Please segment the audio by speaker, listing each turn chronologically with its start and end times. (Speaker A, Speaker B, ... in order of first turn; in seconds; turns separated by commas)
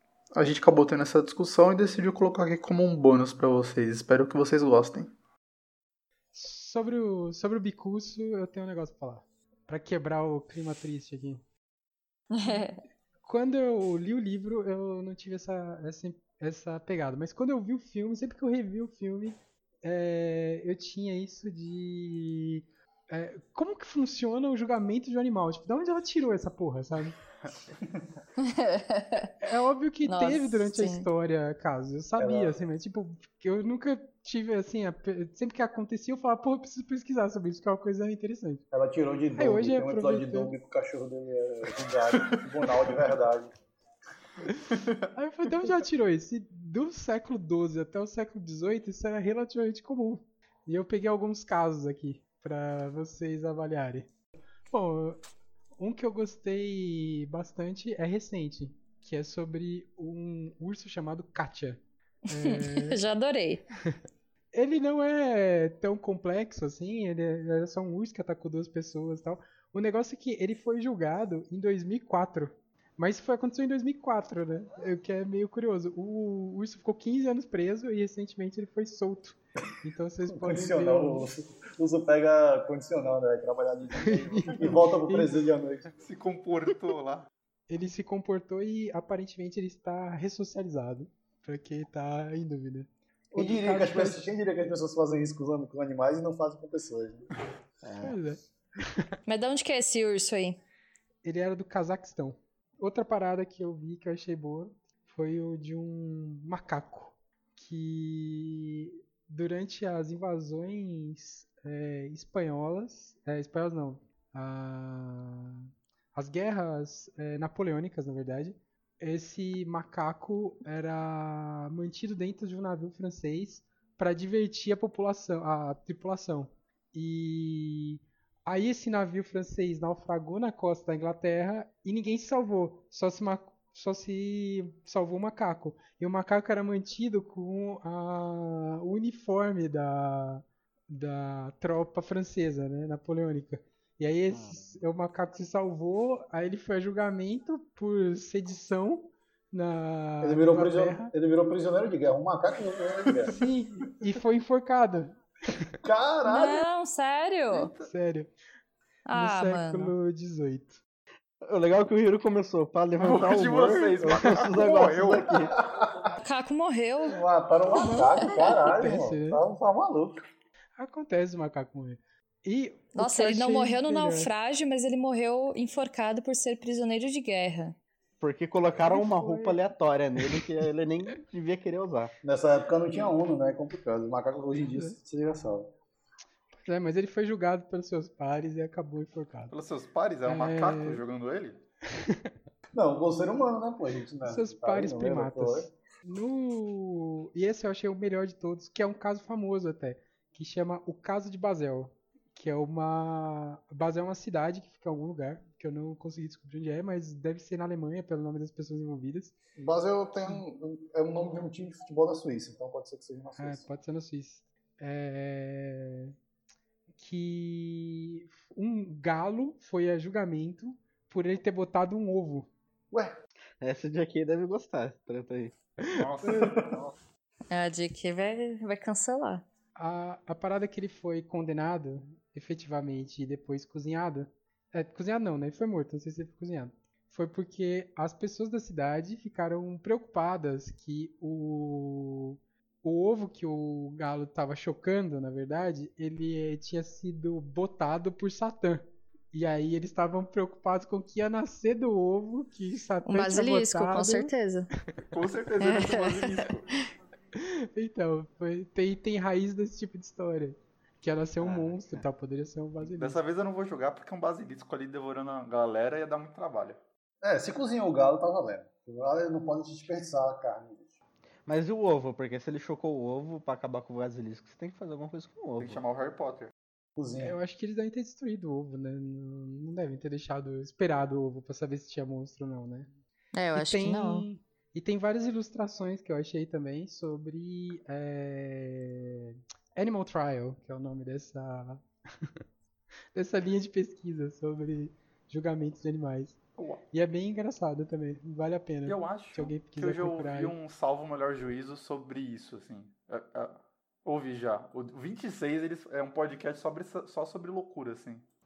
Speaker A: 0.3-5.1, Speaker B: 6.3-11.4, Speaker C: 12.3-12.8, Speaker B: 13.2-27.2, Speaker C: 28.4-29.3, Speaker B: 29.4-38.6, Speaker C: 30.0-31.1, Speaker D: 32.2-32.6, Speaker D: 38.7-43.5, Speaker B: 39.3-40.5, Speaker B: 44.5-54.1, Speaker B: 54.7-55.2, Speaker B: 55.8-63.0, Speaker C: 62.3-63.6, Speaker B: 64.5-81.3, Speaker D: 80.3-85.9, Speaker B: 84.0-85.3, Speaker A: 86.0-87.3, Speaker B: 87.7-94.3, Speaker D: 93.3-97.3, Speaker E: 97.8-98.2, Speaker B: 98.0-98.4, Speaker C: 99.2-100.6, Speaker B: 101.2-151.1, Speaker E: 144.3-144.7, Speaker D: 150.2-153.3, Speaker B: 153.3-155.2, Speaker D: 155.8-156.6, Speaker C: 156.2-157.7, Speaker A: 157.5-157.9, Speaker B: 157.8-158.3, Speaker C: 159.1-159.9, Speaker B: 159.1-160.8, Speaker E: 161.4-165.5, Speaker A: 163.0-165.2, Speaker D: 165.7-166.0, Speaker C: 166.2-167.2, Speaker D: 167.0-170.2, Speaker B: 167.7-169.4, Speaker C: 167.8-168.3, Speaker B: 170.8-174.3, Speaker C: 172.9-177.8, Speaker E: 178.2-182.1, Speaker B: 178.8-179.6, Speaker D: 182.2-185.7, Speaker B: 184.7-185.0, Speaker B: 186.5-189.5, Speaker A: 189.5-191.6, Speaker B: 190.2-191.0, Speaker B: 192.0-192.3, Speaker D: 192.7-195.7, Speaker B: 194.2-209.3, Speaker D: 209.6-213.7, Speaker B: 213.4-216.1, Speaker B: 216.9-222.5, Speaker E: 223.6-225.5, Speaker A: 225.9-226.7, Speaker B: 226.0-226.6, Speaker C: 227.5-229.4, Speaker B: 229.8-254.3, Speaker C: 253.0-254.7, Speaker A: 255.1-256.6, Speaker C: 255.6-256.8, Speaker B: 257.3-263.2, Speaker E: 261.4-262.0, Speaker A: 262.8-266.8, Speaker D: 267.2-271.0, Speaker E: 271.4-275.8, Speaker A: 275.6-276.5, Speaker D: 277.0-277.4, Speaker B: 277.2-282.9, Speaker C: 283.3-284.2, Speaker B: 283.5-291.8, Speaker B: 293.1-296.4, Speaker B: 296.9-300.5, Speaker A: 298.9-308.2